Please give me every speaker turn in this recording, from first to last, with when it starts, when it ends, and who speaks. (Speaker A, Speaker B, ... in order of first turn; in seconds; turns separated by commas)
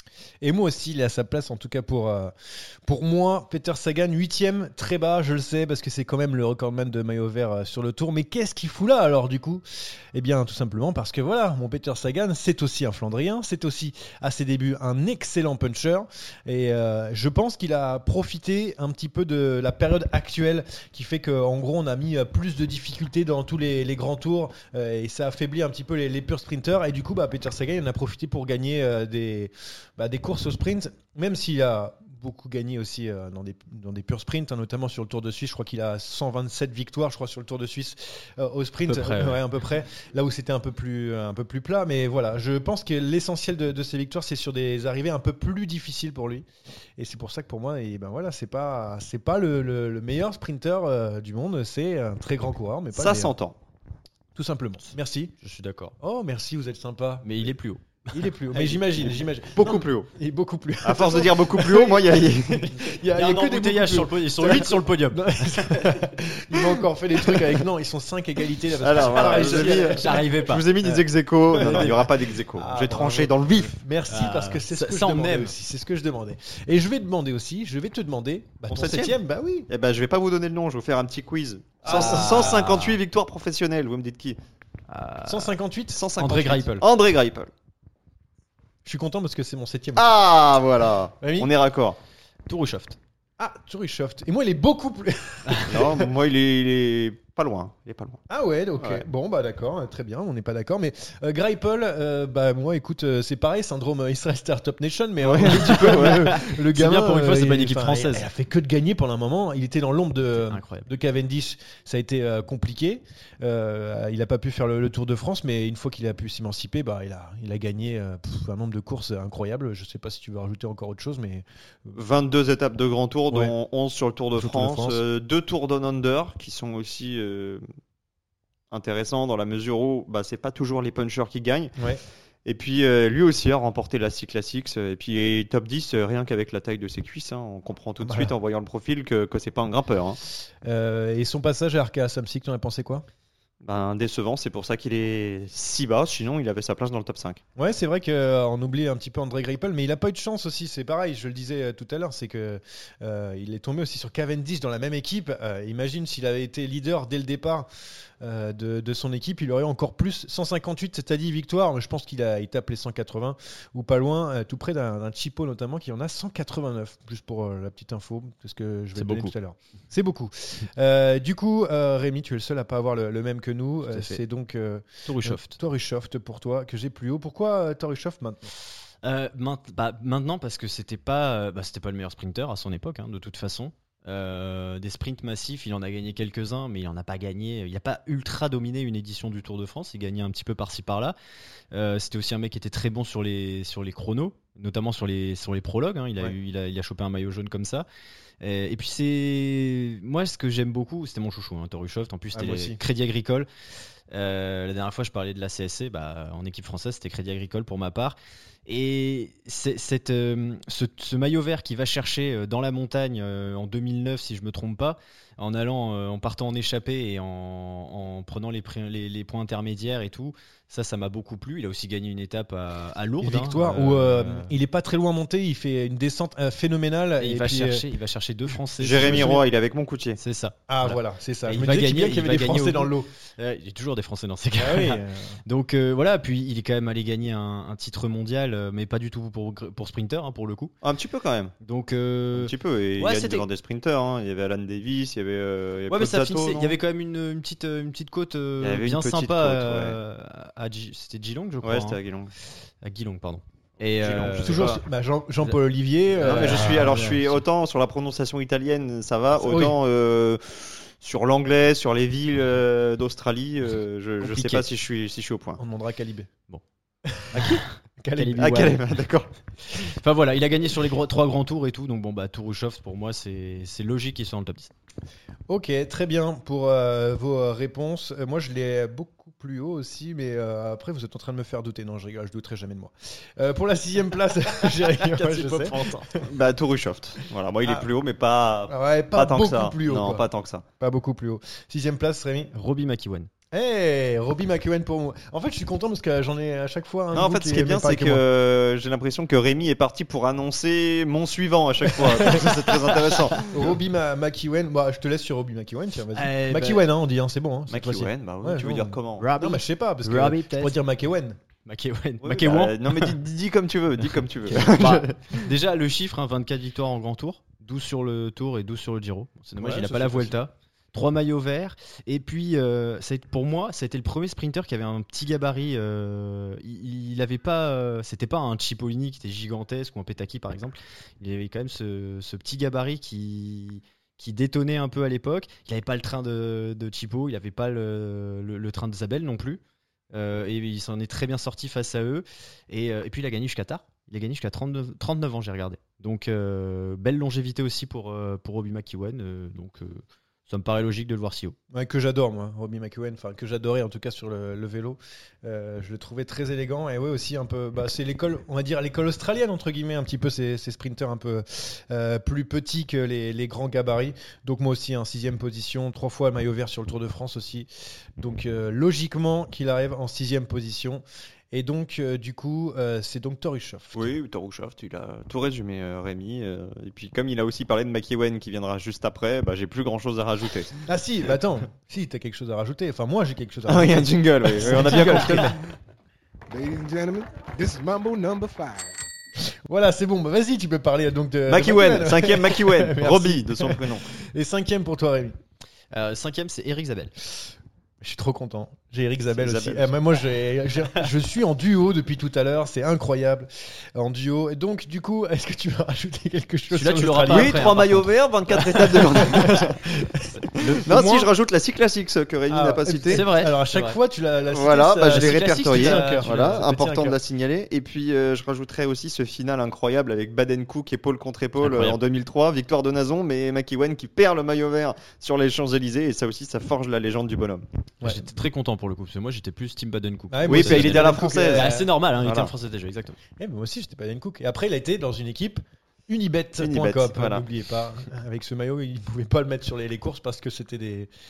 Speaker A: 0.4-46.5, Speaker B: 38.9-39.4, Speaker A: 47.0-53.3, Speaker C: 52.9-53.5, Speaker A: 54.3-55.3, Speaker B: 55.4-56.0, Speaker A: 56.0-57.5, Speaker B: 57.2-59.1, Speaker A: 58.1-70.3, Speaker C: 59.6-60.1, Speaker C: 60.8-62.7, Speaker B: 63.1-66.0, Speaker C: 68.8-73.8, Speaker B: 69.0-71.0, Speaker A: 71.5-79.7, Speaker B: 71.5-72.0, Speaker B: 74.1-75.5, Speaker C: 78.7-79.2, Speaker C: 79.7-84.4, Speaker A: 81.8-82.6, Speaker B: 81.9-83.0, Speaker B: 84.9-85.5, Speaker A: 85.2-86.0, Speaker C: 85.9-87.5, Speaker B: 86.2-86.8, Speaker A: 88.8-90.1, Speaker C: 90.0-92.0, Speaker A: 91.2-91.5, Speaker B: 92.5-93.0, Speaker A: 93.4-96.1, Speaker C: 95.7-98.2, Speaker A: 98.3-122.0, Speaker C: 98.8-99.0, Speaker C: 105.2-106.3, Speaker B: 105.6-108.2, Speaker B: 110.4-110.9, Speaker C: 121.9-127.6, Speaker A: 124.3-125.0, Speaker C: 128.7-131.7, Speaker C: 132.4-140.2, Speaker A: 138.0-138.3, Speaker A: 140.6-143.0, Speaker C: 143.6-147.4, Speaker A: 147.6-157.7, Speaker A: 158.2-178.5, Speaker B: 168.9-169.3, Speaker B: 173.9-174.2, Speaker B: 175.1-175.6, Speaker B: 179.0-191.2, Speaker B: 191.7-197.8, Speaker B: 198.4-203.5, Speaker A: 202.3-202.8, Speaker B: 204.1-224.5, Speaker A: 223.2-227.8, Speaker B: 227.2-229.4, Speaker C: 228.8-230.2, Speaker A: 228.9-229.4, Speaker B: 230.2-240.7, Speaker A: 230.7-233.1, Speaker A: 234.6-235.3, Speaker C: 240.8-241.5, Speaker B: 241.6-243.4, Speaker C: 242.3-246.8, Speaker B: 245.9-252.0, Speaker C: 248.6-250.0, Speaker C: 251.6-252.3, Speaker B: 252.8-254.7, Speaker C: 254.0-254.8, Speaker A: 254.2-256.8, Speaker B: 256.1-257.4, Speaker C: 256.2-265.6, Speaker A: 259.4-259.8, Speaker B: 264.2-264.7, Speaker A: 265.6-266.3, Speaker A: 267.1-268.6, Speaker B: 267.3-267.6, Speaker B: 268.1-268.8, Speaker C: 268.4-269.3, Speaker B: 270.0-274.7, Speaker A: 275.5-286.2, Speaker C: 285.2-290.6, Speaker A: 288.7-290.2, Speaker A: 290.8-292.5, Speaker B: 292.5-293.3, Speaker A: 293.5-298.2, Speaker C: 297.1-303.5, Speaker A: 302.0-302.8, Speaker A: 303.4-311.4, Speaker B: 306.1-306.9, Speaker C: 307.7-309.3, Speaker B: 309.2-310.8, Speaker B: 311.6-313.1, Speaker C: 312.2-315.4, Speaker B: 314.5-339.6, Speaker A: 319.6-320.3, Speaker B: 340.1-351.6, Speaker A: 351.7-374.1, Speaker C: 373.9-380.8, Speaker A: 380.9-385.6, Speaker C: 383.7-385.6, Speaker D: 386.5-388.9, Speaker A: 389.7-395.3, Speaker C: 391.5-394.0, Speaker B: 395.9-397.1, Speaker A: 398.0-407.7, Speaker C: 399.4-399.9, Speaker B: 406.7-408.1, Speaker C: 407.3-409.8, Speaker A: 408.6-410.3, Speaker B: 410.4-411.3, Speaker C: 410.9-413.2, Speaker A: 412.5-417.2, Speaker B: 413.1-414.0, Speaker C: 414.5-427.6, Speaker B: 415.0-416.6, Speaker B: 421.6-422.0, Speaker B: 428.0-433.2, Speaker A: 430.3-431.9, Speaker C: 430.5-432.5, Speaker A: 433.4-441.1, Speaker C: 436.6-437.4